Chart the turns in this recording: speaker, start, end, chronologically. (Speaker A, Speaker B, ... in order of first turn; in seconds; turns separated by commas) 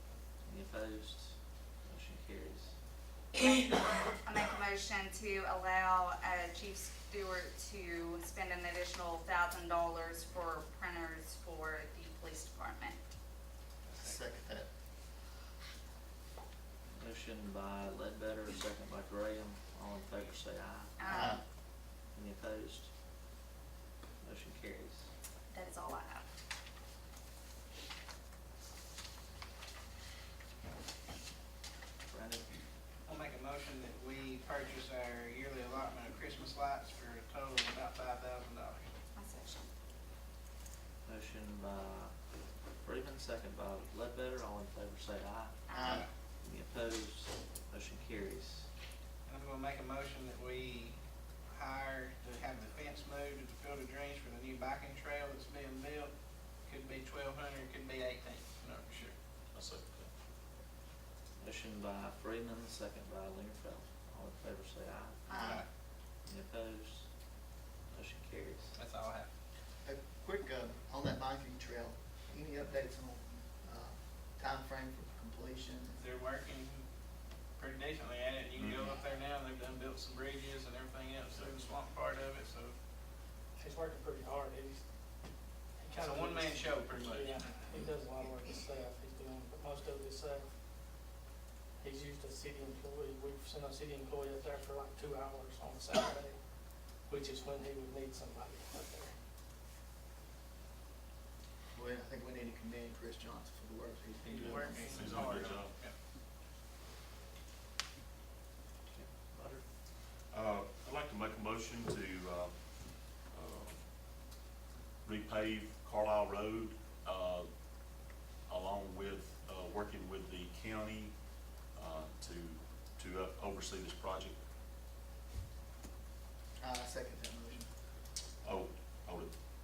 Speaker A: 0.5-1.4, Speaker A: 1.9-2.7, Speaker B: 3.4-13.0, Speaker C: 13.9-14.2, Speaker D: 14.0-14.7, Speaker A: 16.9-20.9, Speaker B: 21.0-21.4, Speaker D: 21.1-21.4, Speaker A: 22.1-22.9, Speaker A: 24.2-25.1, Speaker B: 25.5-26.3, Speaker A: 32.1-32.5, Speaker C: 33.0-38.9, Speaker B: 39.1-39.7, Speaker A: 41.0-42.1, Speaker A: 42.8-48.7, Speaker D: 45.7-46.1, Speaker C: 45.8-46.1, Speaker C: 49.3-51.0, Speaker C: 51.5-56.1, Speaker C: 56.7-59.1, Speaker E: 59.5-60.1, Speaker A: 61.4-65.2, Speaker B: 65.3-65.5, Speaker C: 65.3-65.7, Speaker A: 66.2-67.1, Speaker A: 67.9-68.7, Speaker C: 68.8-69.3, Speaker D: 69.8-76.0, Speaker C: 75.9-76.8, Speaker C: 77.6-82.7, Speaker E: 78.6-78.9, Speaker F: 83.6-84.8, Speaker F: 85.8-90.5, Speaker C: 85.9-87.7, Speaker F: 91.8-96.4, Speaker F: 97.1-99.1, Speaker D: 101.7-105.5, Speaker C: 104.2-105.9, Speaker E: 104.9-105.7, Speaker A: 108.9-109.6, Speaker E: 110.3-113.8, Speaker E: 115.0-117.5, Speaker E: 118.5-121.1, Speaker E: 121.7-124.3, Speaker D: 126.6-127.7, Speaker E: 128.4-129.3